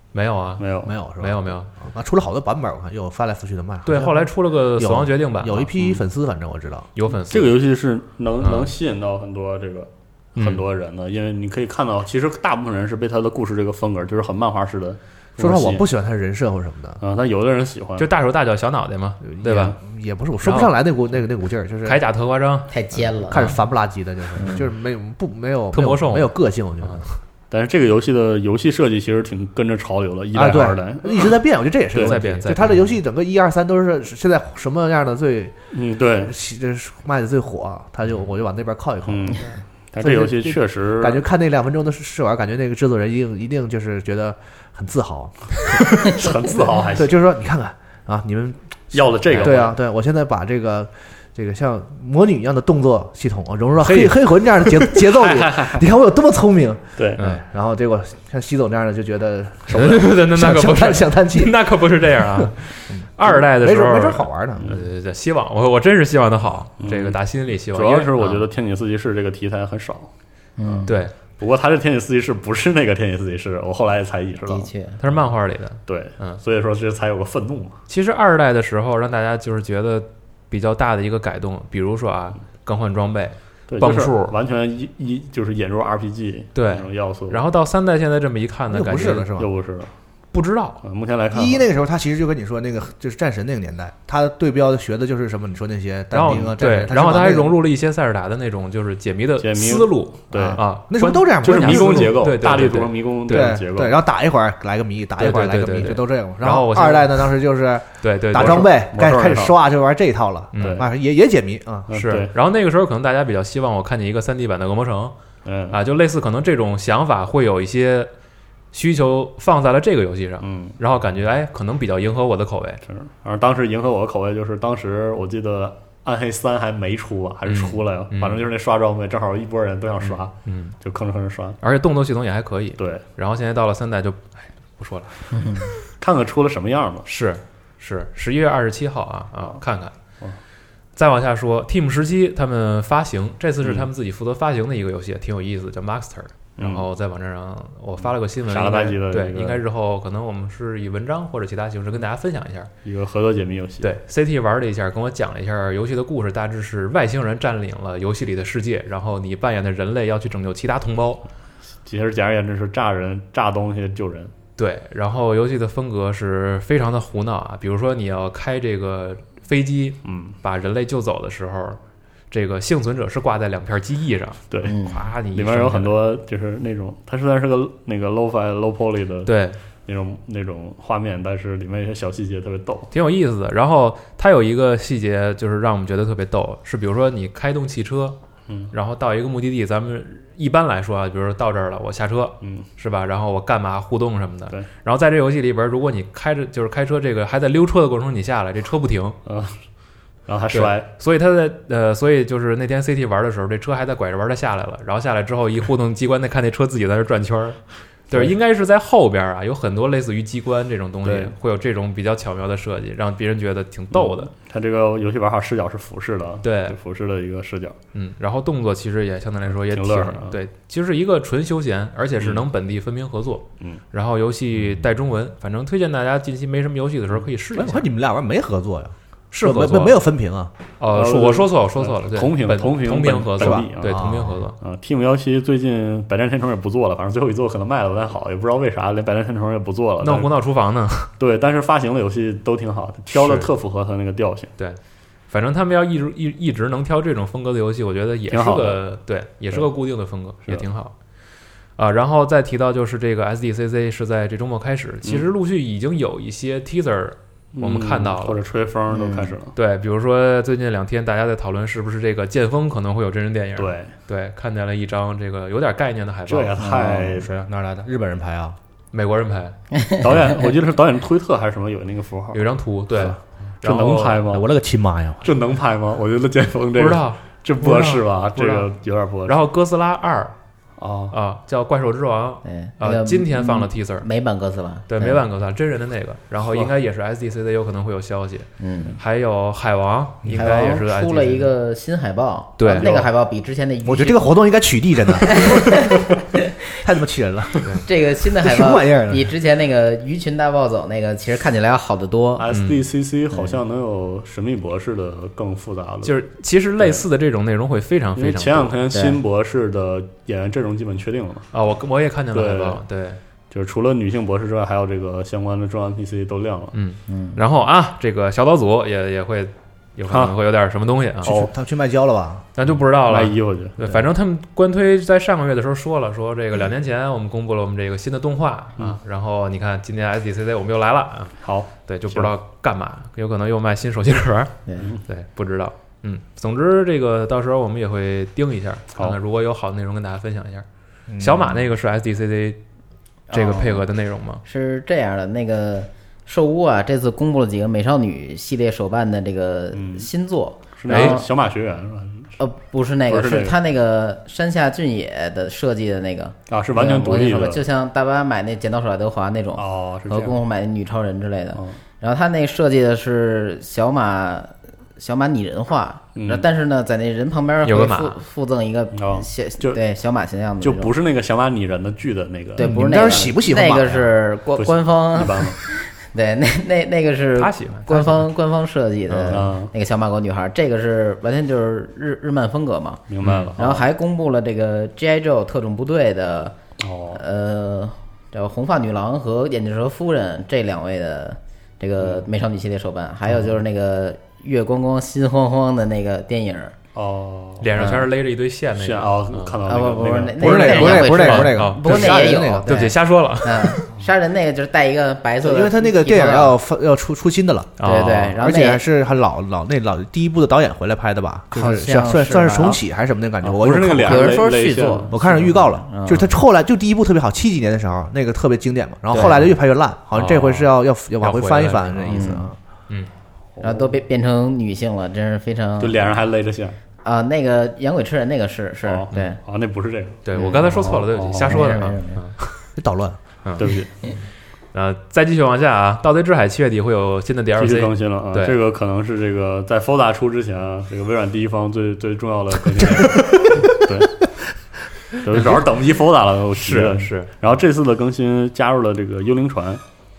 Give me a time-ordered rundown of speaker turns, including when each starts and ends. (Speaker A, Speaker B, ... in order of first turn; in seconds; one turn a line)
Speaker A: 0.1-1.7
Speaker B: 0.6-0.9
Speaker C: 0.8-6.9
Speaker A: 3.8-5.7
Speaker B: 5.8-6.0
Speaker A: 7.0-7.5
Speaker B: 7.3-15.8
Speaker A: 8.4-8.7
Speaker A: 10.3-10.6
Speaker C: 15.4-17.0
Speaker B: 17.0-18.1
Speaker A: 18.0-19.8
Speaker C: 19.2-22.0
Speaker A: 20.4-20.7
Speaker A: 21.8-22.7
Speaker D: 22.7-23.5
Speaker C: 23.3-27.0
Speaker A: 25.7-27.1
Speaker B: 27.5-31.4
Speaker C: 30.3-35.5
Speaker B: 31.9-32.2
Speaker A: 31.9-32.8
Speaker B: 35.7-36.3
Speaker C: 36.2-46.3
Speaker B: 39.1-41.2
Speaker B: 46.0-47.1
Speaker C: 46.9-61.6
Speaker B: 48.9-49.7
Speaker A: 49.3-49.6
Speaker A: 53.8-54.9
Speaker B: 55.1-55.8
Speaker A: 59.7-68.4
Speaker B: 59.7-60.0
Speaker C: 62.4-64.7
Speaker B: 66.8-67.2
Speaker B: 67.7-70.1
Speaker D: 70.6-70.9
Speaker B: 70.6-74.7
Speaker A: 70.9-71.1
Speaker D: 74.5-75.0
Speaker A: 75.0-76.4
Speaker B: 75.8-77.8
Speaker A: 77.9-84.3
Speaker B: 83.7-87.4
Speaker A: 86.5-89.3
Speaker C: 88.7-89.5
Speaker B: 89.4-89.9
Speaker A: 90.3-90.8
Speaker B: 90.8-91.6
Speaker C: 91.3-97.6
Speaker A: 96.1-103.6
Speaker B: 99.4-100.6
Speaker C: 100.3-102.3
Speaker B: 101.4-104.0
Speaker C: 103.3-111.9
Speaker A: 105.2-107.3
Speaker A: 108.0-108.7
Speaker B: 108.3-109.5
Speaker A: 110.5-110.8
Speaker B: 110.6-110.8
Speaker B: 111.9-112.3
Speaker A: 111.9-115.1
Speaker B: 115.4-115.8
Speaker A: 115.7-118.1
Speaker A: 118.7-122.8
Speaker B: 120.4-120.8
Speaker B: 122.9-131.6
Speaker A: 127.5-128.4
Speaker A: 130.0-130.7
Speaker A: 131.6-135.7
Speaker B: 132.8-133.0
Speaker B: 136.0-137.1
Speaker A: 137.1-139.9
Speaker A: 140.9-152.7
Speaker B: 143.6-143.9
Speaker B: 146.6-146.8
Speaker B: 148.5-149.6
Speaker B: 152.8-153.9
Speaker A: 153.8-161.2
Speaker B: 161.8-164.3
Speaker A: 164.6-171.8
Speaker B: 170.0-170.3
Speaker A: 172.3-175.9
Speaker B: 174.5-174.8
Speaker D: 174.6-175.0
Speaker B: 175.3-179.3
Speaker A: 179.2-179.6
Speaker B: 179.8-182.9
Speaker A: 182.9-188.2
Speaker A: 188.7-199.2
Speaker B: 199.2-199.5
Speaker B: 200.3-200.9
Speaker A: 200.5-214.3
Speaker B: 211.0-211.3
Speaker B: 213.9-217.8
Speaker A: 216.4-216.8
Speaker A: 217.9-227.9
Speaker B: 219.6-220.3
Speaker B: 222.2-222.4
Speaker C: 227.5-230.5
Speaker A: 229.3-230.0
Speaker A: 230.8-234.6
Speaker B: 230.9-234.1
Speaker C: 233.4-234.4
Speaker B: 234.6-240.3
Speaker A: 240.0-241.1
Speaker B: 241.2-244.5
Speaker A: 243.1-243.5
Speaker A: 245.3-250.9
Speaker B: 248.3-248.8
Speaker A: 251.8-258.4
Speaker B: 257.5-259.5
Speaker D: 258.9-259.3
Speaker A: 259.5-266.5
Speaker B: 263.6-263.9
Speaker B: 266.3-267.3
Speaker D: 266.6-267.2
Speaker C: 267.1-268.6
Speaker A: 268.9-269.6
Speaker D: 269.7-270.3
Speaker B: 270.0-272.4
Speaker A: 272.3-274.2
Speaker B: 272.9-274.5
Speaker C: 274.3-275.3
Speaker B: 275.2-279.4
Speaker A: 276.8-278.7
Speaker C: 277.7-277.9
Speaker A: 279.2-280.3
Speaker B: 280.8-281.1
Speaker A: 281.1-284.1
Speaker D: 282.4-285.2
Speaker A: 284.9-291.5
Speaker D: 288.6-289.0
Speaker D: 290.3-294.4
Speaker A: 292.6-293.0
Speaker B: 292.7-293.1
Speaker C: 293.8-296.0
Speaker D: 295.1-296.5
Speaker C: 296.7-297.8
Speaker D: 297.8-302.5
Speaker C: 298.3-299.3
Speaker B: 302.4-306.1
Speaker A: 302.5-302.9
Speaker D: 303.3-303.6
Speaker A: 306.0-308.8
Speaker B: 306.8-307.0
Speaker B: 308.1-311.5
Speaker D: 308.9-309.2
Speaker A: 311.5-313.2
Speaker B: 312.3-312.8
Speaker B: 313.5-316.7
Speaker A: 316.7-321.4
Speaker D: 317.1-317.4
Speaker B: 320.1-320.3
Speaker B: 321.2-321.5
Speaker C: 321.2-322.4
Speaker A: 322.6-340.6
Speaker B: 323.1-323.8
Speaker B: 331.4-332.3
Speaker D: 334.6-334.9
Speaker C: 341.1-341.6
Speaker A: 341.2-342.6
Speaker D: 343.3-343.9
Speaker A: 343.3-344.4
Speaker D: 344.4-351.3
Speaker B: 349.7-350.1
Speaker B: 350.8-352.4
Speaker A: 350.9-351.2
Speaker D: 352.4-370.9
Speaker B: 353.1-353.6
Speaker B: 356.5-357.6
Speaker B: 359.6-360.4
Speaker B: 366.1-366.5
Speaker A: 367.6-368.2
Speaker B: 368.9-369.8
Speaker B: 370.6-372.8
Speaker D: 372.6-383.0
Speaker C: 372.6-374.1
Speaker B: 374.6-375.6
Speaker A: 377.4-378.2
Speaker B: 379.3-379.7
Speaker B: 383.1-383.9
Speaker A: 383.2-383.5
Speaker D: 383.6-386.6
Speaker B: 386.8-387.2
Speaker D: 387.1-396.7
Speaker B: 396.9-397.7
Speaker A: 397.6-399.6
Speaker D: 397.8-398.1
Speaker B: 398.7-401.1
Speaker D: 399.6-406.6
Speaker C: 400.4-402.9
Speaker A: 400.6-403.8
Speaker C: 405.4-414.4
Speaker A: 407.8-408.4
Speaker D: 407.8-408.8
Speaker D: 411.5-412.8
Speaker B: 413.4-415.1
Speaker D: 414.0-416.3
Speaker C: 415.1-422.6
Speaker D: 419.1-419.5
Speaker A: 420.1-422.2
Speaker D: 422.1-422.5
Speaker B: 423.6-424.0
Speaker D: 423.6-426.2
Speaker B: 425.8-426.8
Speaker D: 427.0-429.4
Speaker B: 428.8-431.8
Speaker A: 430.2-432.5
Speaker D: 430.4-430.8
Speaker D: 431.4-432.2
Speaker C: 432.8-433.2
Speaker B: 433.6-433.9
Speaker A: 434.7-438.6
Speaker B: 437.6-444.2
Speaker B: 445.1-449.8
Speaker A: 446.6-447.3